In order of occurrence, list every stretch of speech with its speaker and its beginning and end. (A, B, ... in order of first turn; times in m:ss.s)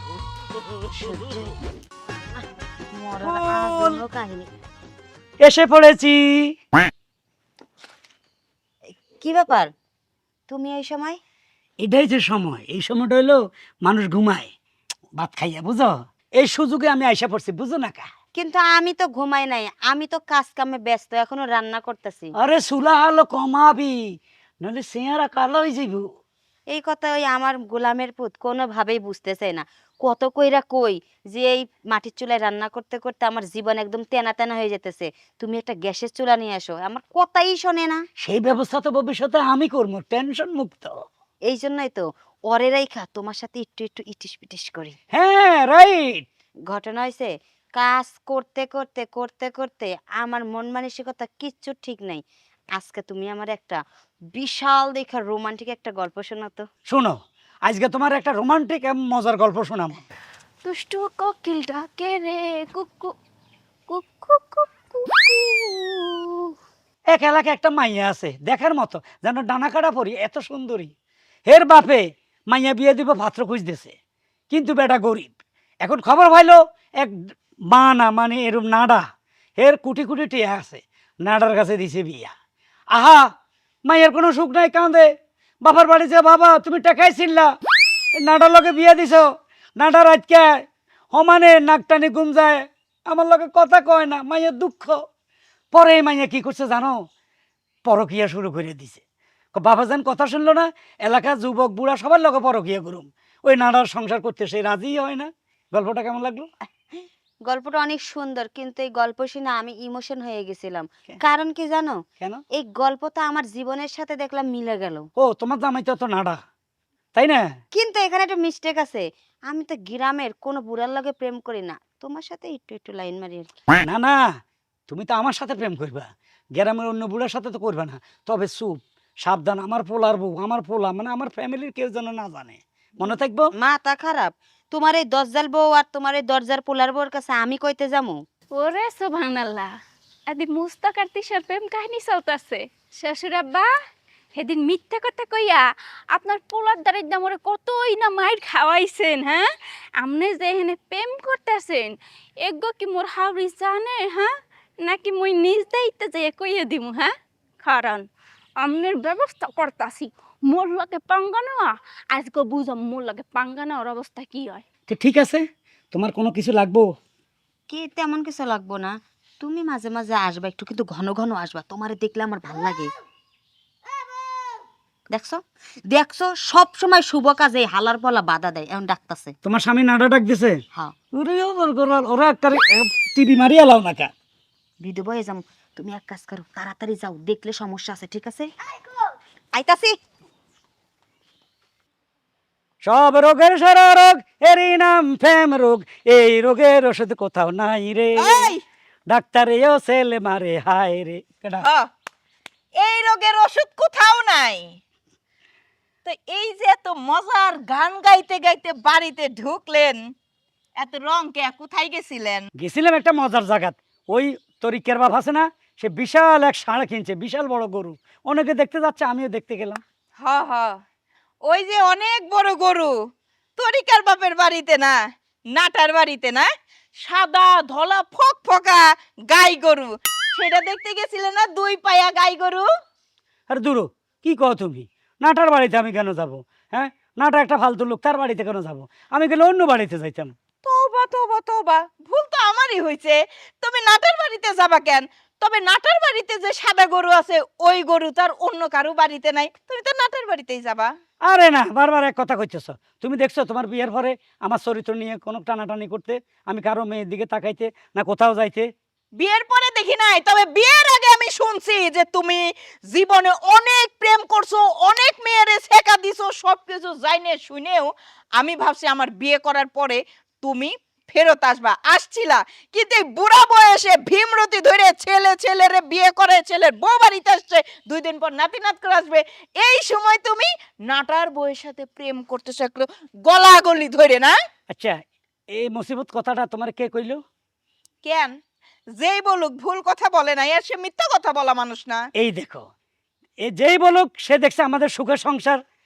0:00.9-0:01.6 A
0:02.4-0:04.5 A
0:03.2-0:04.0 B
0:05.4-0:06.5 B
0:09.0-0:09.7 A
0:10.5-0:11.2 A
0:11.8-0:14.5 B
0:15.2-0:18.1 B
0:18.4-0:22.3 A
0:22.4-0:24.0 B
0:24.6-0:26.1 B
0:26.7-0:38.0 A
0:38.2-0:40.9 B
0:41.5-0:45.0 A
0:45.1-0:46.3 B
0:46.7-0:52.2 A
0:52.8-0:53.8 A
0:54.3-0:56.7 A
0:56.9-1:00.0 B
1:00.6-1:03.1 C
1:03.9-1:06.5 C
1:07.1-1:10.9 B
1:11.5-1:13.9 B
1:14.5-1:15.3 B
1:15.8-1:17.1 B
1:17.7-1:19.0 B
1:19.6-1:22.3 B
1:22.9-1:23.2 B
1:23.9-1:25.1 B
1:25.6-1:27.5 B
1:28.2-1:29.3 B
1:29.8-1:35.0 B
1:35.7-1:37.0 B
1:37.9-1:39.0 B
1:39.5-1:46.5 B
1:46.9-1:52.0 A
1:52.6-1:55.1 A
1:55.2-1:56.4 B
1:57.1-1:57.5 B
1:57.7-2:03.5 A
2:03.8-2:04.2 B
2:04.9-2:13.5 B
2:13.0-2:18.2 A
2:18.6-2:19.7 C
2:20.3-2:23.7 C
2:24.4-2:29.5 C
2:30.0-2:34.3 C
2:34.8-2:37.1 C
2:37.6-2:38.0 C
2:38.6-2:44.6 C
2:44.9-2:46.9 B
2:47.7-2:52.9 A
2:55.1-2:59.4 A
2:59.4-3:00.6 B
3:01.1-3:04.1 B
3:04.8-3:08.5 A
3:09.5-3:10.0 A
3:12.8-3:18.5 B
3:18.2-3:18.6 D
3:19.1-3:21.7 B
3:22.8-3:24.8 D
3:26.0-3:30.1 D
3:30.8-3:32.5 D
3:32.6-3:39.8 B
3:40.2-3:40.8 D
3:41.5-3:42.9 D
3:43.6-3:45.0 D
3:45.5-3:46.5 D
3:47.0-3:52.7 D
3:53.5-4:00.3 B
4:00.6-4:10.9 D
4:11.3-4:18.7 B
4:19.2-4:44.3 D
4:44.7-4:45.0 B
4:45.5-4:47.2 B
4:48.0-4:48.3 D
4:49.0-4:52.0 D
4:52.2-4:52.6 B
4:53.4-4:55.6 B